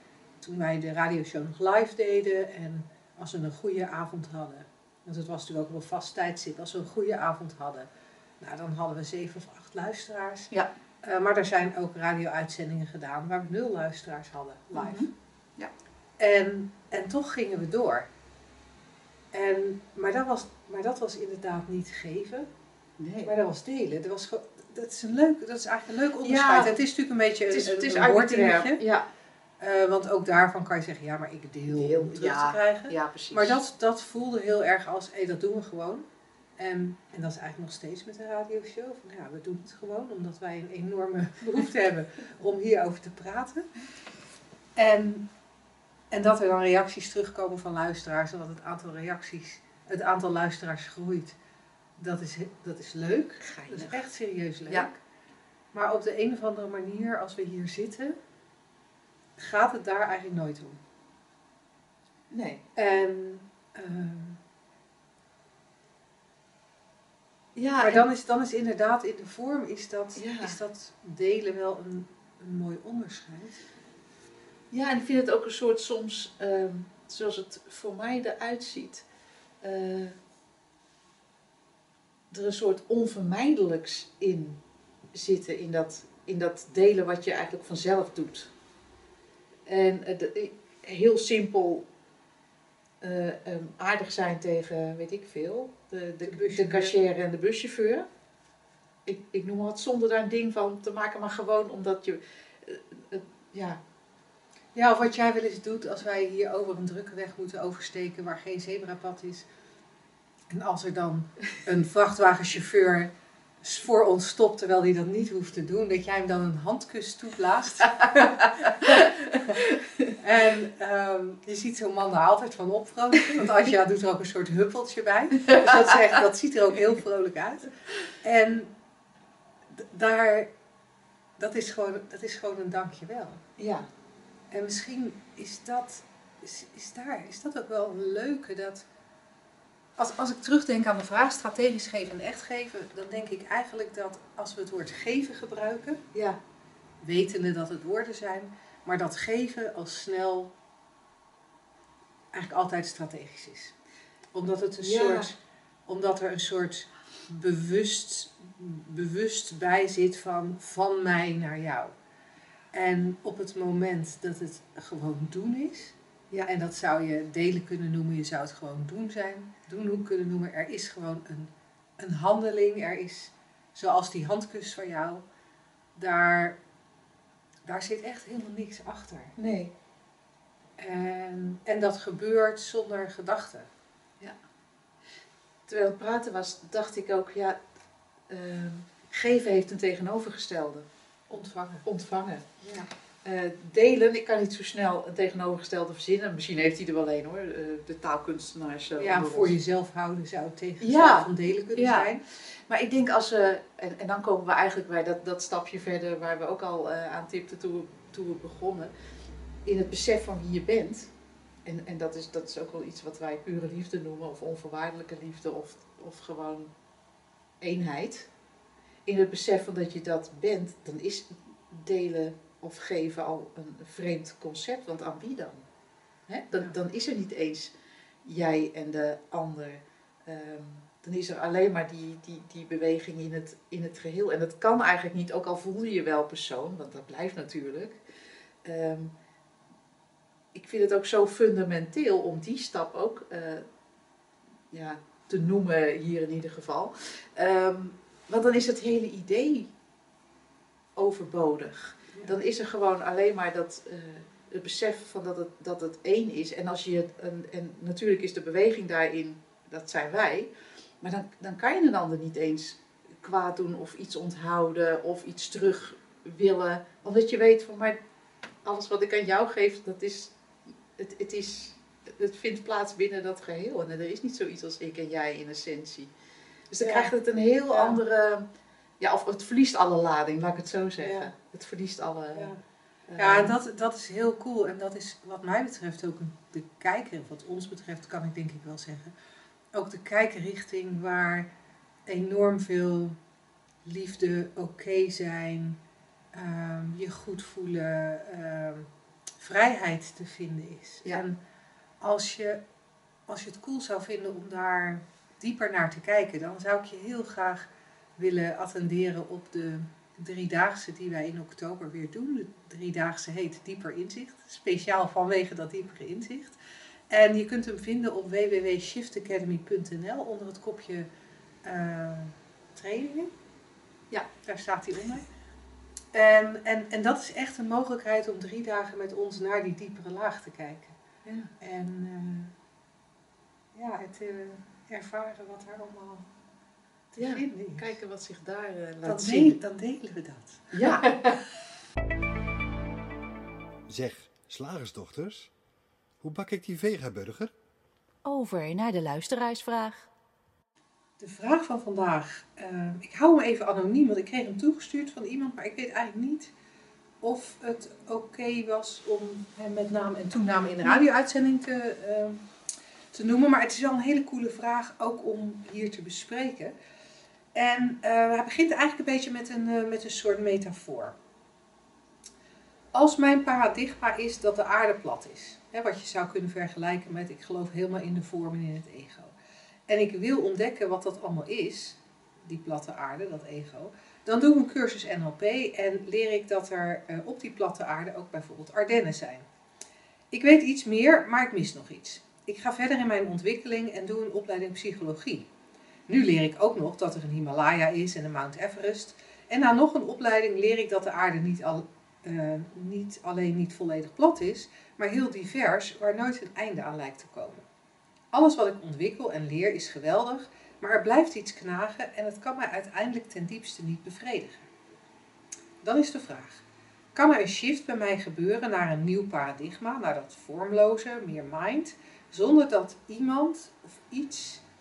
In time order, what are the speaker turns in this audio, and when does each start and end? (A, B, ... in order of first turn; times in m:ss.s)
0:00.4-0:07.9 A
0:08.4-0:10.5 A
0:11.0-0:15.1 A
0:14.7-0:15.7 B
0:16.2-0:18.1 A
0:19.3-0:22.5 A
0:23.0-0:23.3 B
0:23.2-0:28.8 A
0:26.2-0:26.7 B
0:27.5-0:29.0 B
0:29.6-0:36.0 A
0:31.7-0:33.6 B
0:36.6-0:43.7 A
0:41.4-0:41.7 B
0:44.8-0:45.2 A
0:46.1-0:51.4 A
0:52.0-0:55.0 A
0:53.4-0:54.0 B
0:55.7-0:58.2 A
0:59.4-1:00.8 A
1:02.3-1:02.6 B
1:02.8-1:04.4 A
1:07.6-1:08.0 B
1:07.8-1:13.6 A
1:10.2-1:10.6 B
1:14.7-1:19.0 B
1:19.6-1:20.2 B
1:22.3-1:24.6 B
1:25.1-1:28.5 B
1:29.7-1:31.8 B
1:33.0-1:38.0 B
1:36.2-1:36.9 A
1:39.0-1:43.8 B
1:44.7-1:49.5 A
1:50.5-1:53.1 A
1:53.6-1:59.6 A
1:58.8-2:00.1 B
2:00.2-2:08.7 A
2:05.4-2:05.7 B
2:09.7-2:10.5 A
2:11.4-2:13.4 A
2:13.6-2:13.9 B
2:14.5-2:18.8 A
2:20.0-2:26.0 A
2:26.1-2:26.4 B
2:27.0-2:30.5 A
2:32.3-2:33.7 A
2:34.3-2:41.9 A
2:34.8-2:35.3 B
2:42.7-2:55.2 A
2:55.9-2:56.6 A
2:57.6-2:59.3 A
2:59.4-2:59.7 B
3:00.8-3:03.7 A
3:05.7-3:07.6 B
3:08.3-3:10.9 B
3:11.3-3:11.8 A
3:11.8-3:12.4 B
3:12.6-3:12.9 A
3:13.2-3:19.5 B
3:19.0-3:22.2 A
3:20.8-3:28.9 B
3:29.6-3:31.1 B
3:31.6-3:36.7 B
3:37.6-3:38.3 B
3:39.0-3:45.6 B
3:46.3-3:47.7 B
3:48.2-3:58.0 B
3:58.6-3:59.1 B
4:00.5-4:03.6 B
4:04.7-4:09.7 B
4:11.0-4:20.5 B
4:21.0-4:28.0 B
4:28.6-4:30.3 B
4:30.9-4:36.1 B
4:36.7-4:38.4 B
4:36.8-4:37.1 A
4:37.7-4:38.0 A
4:39.0-4:42.5 B
4:41.0-4:41.3 A
4:42.3-4:42.6 A
4:43.1-4:43.6 B
4:43.2-4:49.1 A
4:49.7-4:51.5 A
4:52.0-4:53.2 A
4:53.8-4:55.8 A
4:56.3-5:01.4 A
5:02.0-5:02.6 A
5:03.3-5:16.6 A
5:17.1-5:21.1 A
5:21.6-5:23.3 A
5:24.4-5:25.3 A
5:26.1-5:31.0 A
5:31.2-5:31.5 B
5:31.6-5:32.5 A
5:33.7-5:36.3 A
5:37.1-5:37.9 A
5:37.2-5:39.6 B
5:39.0-5:41.4 A
5:40.7-5:41.3 B
5:43.9-5:45.5 C
5:46.2-5:47.5 C
5:48.2-5:50.1 B
5:51.2-5:56.5 A
5:57.2-6:02.5 A
6:00.5-6:01.0 B
6:03.1-6:06.7 A
6:07.5-6:11.1 A
6:12.9-6:19.3 A
6:19.9-6:29.4 A
6:30.3-6:35.5 A
6:36.1-6:47.6 A
6:48.3-6:54.7 A
6:55.8-6:56.6 A
6:57.1-7:04.6 A